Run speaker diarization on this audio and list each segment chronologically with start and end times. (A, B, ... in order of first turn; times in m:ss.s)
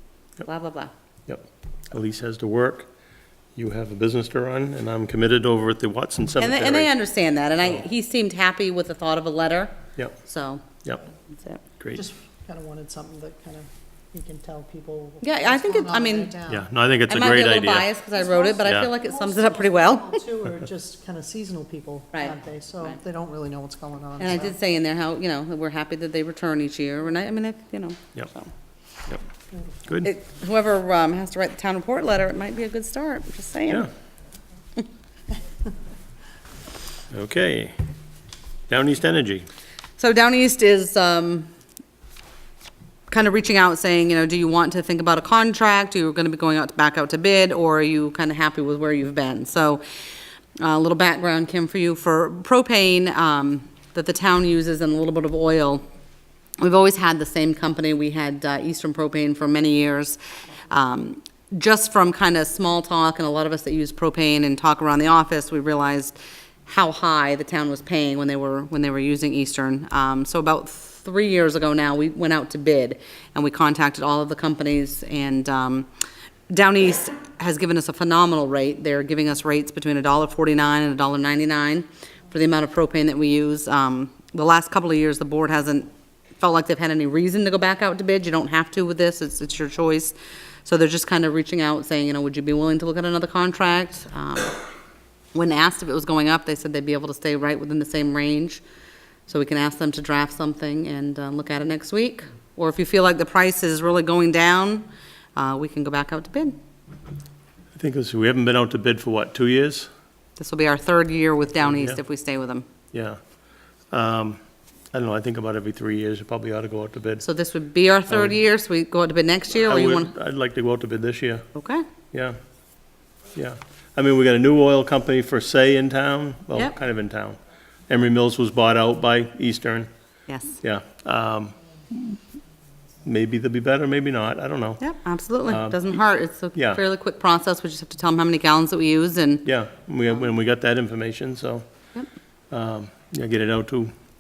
0:00.4-0:00.9 A
0:01.3-0:02.9 B
0:03.6-0:06.9 B
0:06.4-0:10.7 A
0:11.3-0:11.6 A
0:11.8-0:12.0 B
0:12.0-0:16.6 C
0:15.2-0:16.4 A
0:16.5-0:17.9 B
0:17.1-0:20.2 A
0:18.2-0:24.5 C
0:18.6-0:18.9 B
0:24.2-0:28.5 A
0:29.8-0:30.1 B
0:30.0-0:33.9 A
0:37.1-0:37.8 B
0:38.7-0:39.5 B
0:40.0-0:41.5 A
0:43.1-0:49.8 A
0:50.6-0:55.8 A
0:56.6-1:15.9 A
1:16.5-1:34.6 A
1:35.3-1:38.6 A
1:39.3-1:46.6 A
1:47.8-1:49.9 B
1:50.4-1:52.7 A
1:51.7-1:52.0 B
1:52.9-1:53.2 B
1:53.9-1:54.4 B
1:54.9-1:57.2 B
1:57.2-2:00.1 A
1:58.1-1:58.4 B
1:59.6-2:01.4 B
2:01.6-2:01.9 A
2:03.4-2:09.9 B
2:10.3-2:10.6 A
2:10.6-2:12.2 B
2:13.0-2:14.8 B
2:14.8-2:19.5 A
2:15.5-2:15.8 B
2:16.6-2:16.8 B
2:19.4-2:21.6 B
2:22.5-2:23.9 B